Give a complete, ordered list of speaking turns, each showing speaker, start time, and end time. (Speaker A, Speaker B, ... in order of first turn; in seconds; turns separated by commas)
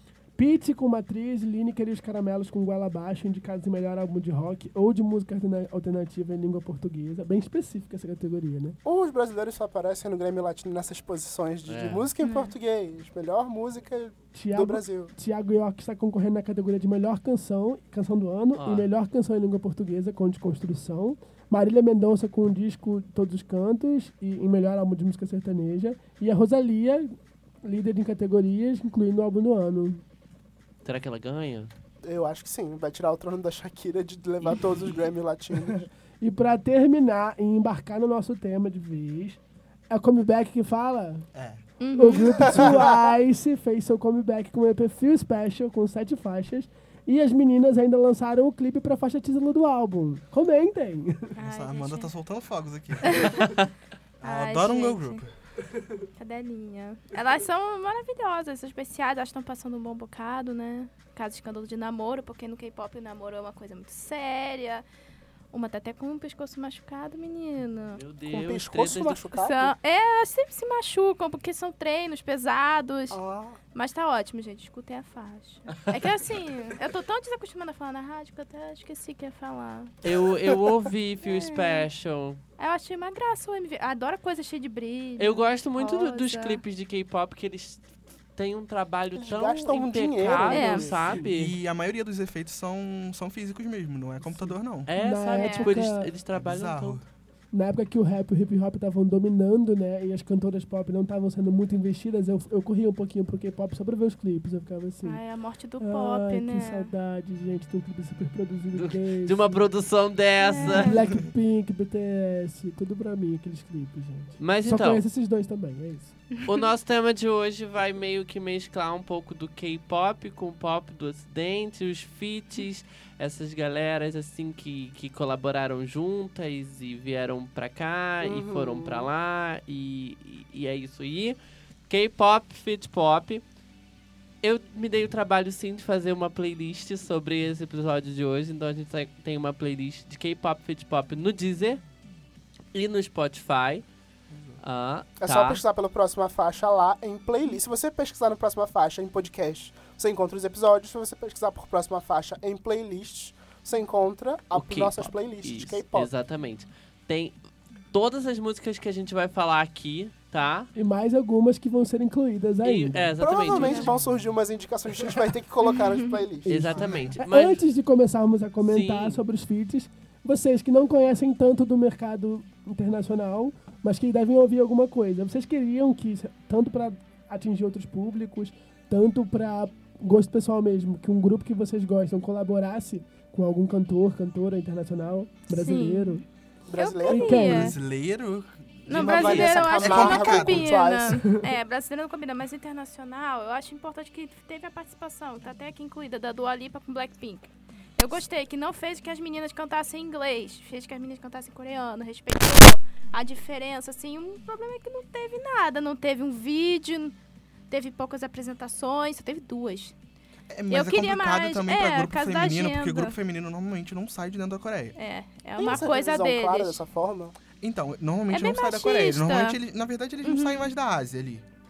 Speaker A: 0.4-8.8, Speaker B: 8.8-15.1, Speaker C: 11.7-12.1, Speaker D: 12.2-12.5, Speaker A: 14.3-30.0, Speaker C: 18.6-18.9, Speaker C: 30.9-31.7, Speaker B: 32.0-35.9, Speaker A: 36.2-41.3, Speaker E: 41.3-41.6, Speaker D: 41.8-42.6, Speaker A: 42.0-51.3, Speaker B: 42.4-43.1, Speaker E: 42.5-42.8, Speaker D: 51.4-52.1, Speaker E: 51.4-53.4, Speaker D: 53.0-53.5, Speaker C: 53.4-53.7, Speaker E: 54.2-55.3, Speaker D: 54.2-55.2, Speaker D: 56.1-64.8, Speaker D: 65.5-68.0, Speaker C: 68.0-69.2, Speaker B: 68.3-69.7, Speaker D: 69.3-73.2, Speaker B: 73.1-73.6, Speaker D: 73.7-80.0, Speaker C: 75.7-76.0, Speaker C: 80.0-82.4, Speaker D: 81.2-81.9, Speaker D: 82.6-86.6, Speaker C: 85.2-87.8, Speaker C: 88.4-91.5, Speaker B: 89.2-91.2, Speaker D: 90.5-91.0, Speaker E: 91.3-94.9, Speaker A: 94.2-96.1, Speaker C: 94.9-97.0, Speaker D: 95.3-95.8, Speaker E: 96.3-97.0, Speaker A: 97.5-105.2, Speaker D: 105.0-106.9, Speaker A: 105.8-109.7, Speaker C: 108.8-111.0, Speaker D: 110.4-111.0, Speaker A: 110.6-116.2, Speaker C: 114.4-115.0, Speaker D: 116.3-116.7, Speaker C: 116.5-131.4, Speaker B: 128.2-129.1, Speaker C: 131.9-133.4, Speaker C: 134.4-141.8, Speaker C: 142.7-143.8, Speaker E: 144.3-144.6, Speaker C: 144.6-145.6, Speaker B: 145.2-156.1, Speaker C: 154.5-157.3, Speaker C: 157.9-160.7, Speaker A: 160.8-163.1, Speaker C: 162.6-163.9, Speaker B: 163.2-166.6, Speaker D: 163.5-163.9, Speaker D: 165.7-166.2, Speaker C: 166.4-167.6, Speaker A: 166.4-186.2, Speaker E: 166.8-167.2, Speaker C: 168.6-169.2, Speaker D: 185.5-186.2, Speaker B: 186.7-187.6, Speaker D: 186.8-187.8, Speaker A: 187.1-187.7, Speaker E: 187.4-190.8, Speaker D: 188.9-207.2, Speaker B: 188.9-191.3, Speaker D: 207.7-209.9, Speaker E: 210.5-214.9, Speaker D: 210.7-213.2, Speaker D: 215.0-216.8, Speaker B: 215.6-217.3, Speaker E: 217.6-221.4, Speaker D: 218.3-219.6, Speaker D: 220.2-220.6